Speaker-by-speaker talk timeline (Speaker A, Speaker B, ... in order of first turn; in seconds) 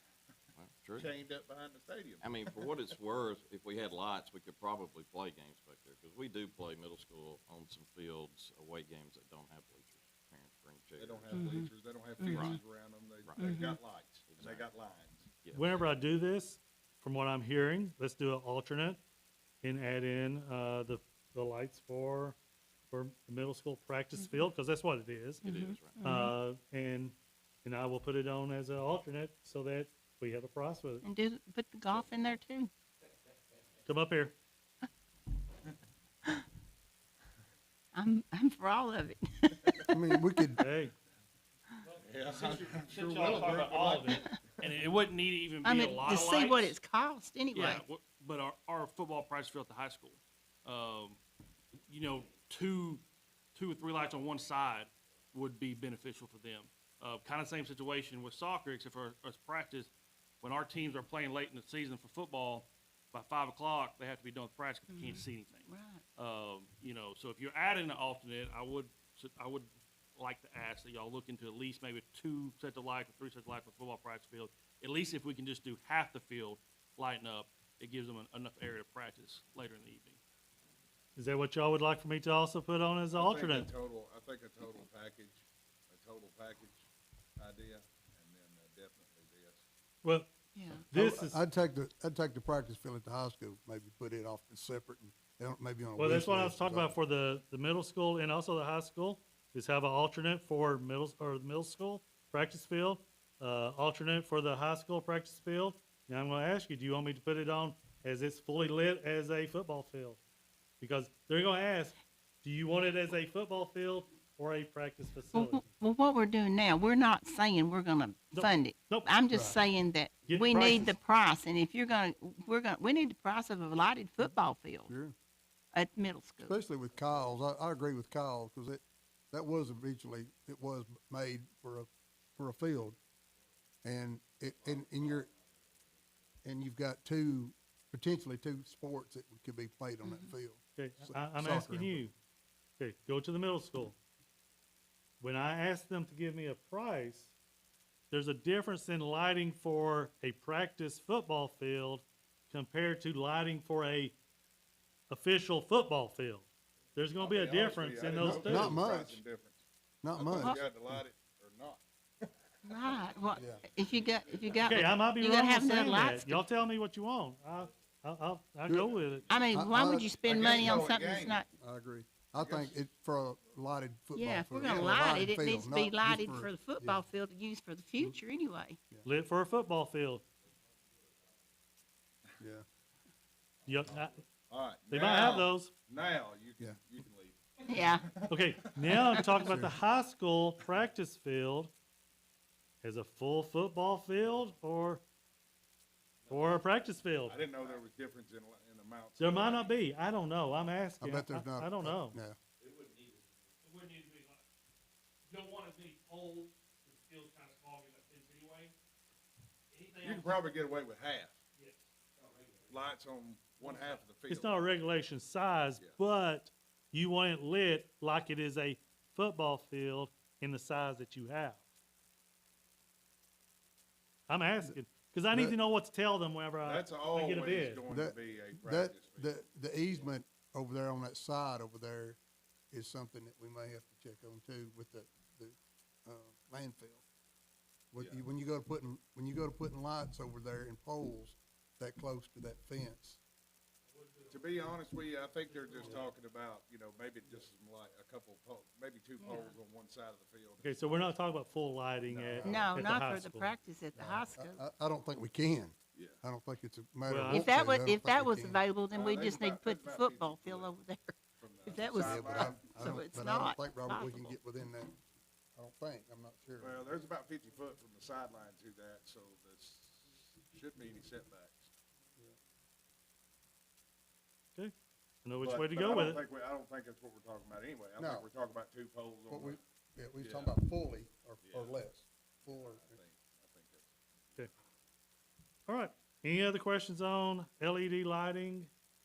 Speaker A: 0.6-1.1, 2.2-11.4, 12.2-12.6, 13.2-13.5, 14.3-14.7, 15.4-15.9, 25.4-26.0, 202.6-203.4
Speaker B: 1.0-2.7, 11.0-15.3, 42.0-44.7, 83.1-86.8, 87.4-89.6, 157.2-162.3, 170.2-171.4, 172.4-172.8, 184.5-189.1, 197.3-199.7, 210.0-211.4, 212.7-214.6, 226.6-229.3, 244.3-251.1, 252.1-253.3, 255.9-256.2, 258.9-260.8, 261.4-263.0, 266.6-271.7, 275.4-279.6, 280.2-280.6, 281.4-281.8, 282.5-283.9
Speaker C: 11.3-11.6, 12.3-12.6, 13.4-13.7, 24.2-24.4, 25.4-26.3, 31.0-32.7, 38.0-39.8, 45.6-47.8, 64.9-66.0, 90.5-90.8, 115.3-124.9, 125.7-126.6, 140.0-140.3, 162.7-166.4, 169.3-171.5, 174.2-178.8, 187.7-188.0, 249.2-249.5, 252.5-254.6, 257.3-264.4
Speaker D: 15.5-19.0, 19.6-22.4, 22.9-25.4, 26.0-31.0, 33.9-34.4, 40.6-40.9, 81.2-83.7, 90.0-90.3, 90.9-91.4, 96.0-110.2, 110.8-115.7, 118.3-119.1, 120.3-120.9, 140.8-142.1, 142.8-144.0, 145.2-147.3, 148.1-154.2, 155.1-158.8, 164.7-169.3, 179.1-180.2, 183.7-184.2, 184.9-185.7, 188.2-191.7, 192.8-195.0, 196.3-197.4, 199.2-202.2, 214.3-221.6, 224.3-227.8, 250.6-253.5, 257.1-257.6, 275.2-276.2, 285.7-288.7
Speaker E: 39.8-40.6, 90.9-96.9, 119.3-119.6, 124.9-125.1, 126.4-133.0, 133.8-135.3, 136.4-142.1, 158.2-159.2, 160.0-161.0, 163.4-163.6, 168.7-168.9, 169.5-177.1, 182.4-182.7, 189.4-189.7, 201.0-202.4, 225.3-225.6, 227.9-232.2, 232.7-237.0, 237.9-243.2, 254.0-258.6, 261.9-265.0, 265.6-266.8, 278.0-278.3, 279.3-283.0
Speaker F: 41.9-46.7, 47.5-51.2, 51.9-53.0, 53.5-59.9, 60.4-80.2, 203.6-204.4, 205.3-208.7, 209.7-210.4, 211.6-212.5, 213.6-214.0, 243.9-244.6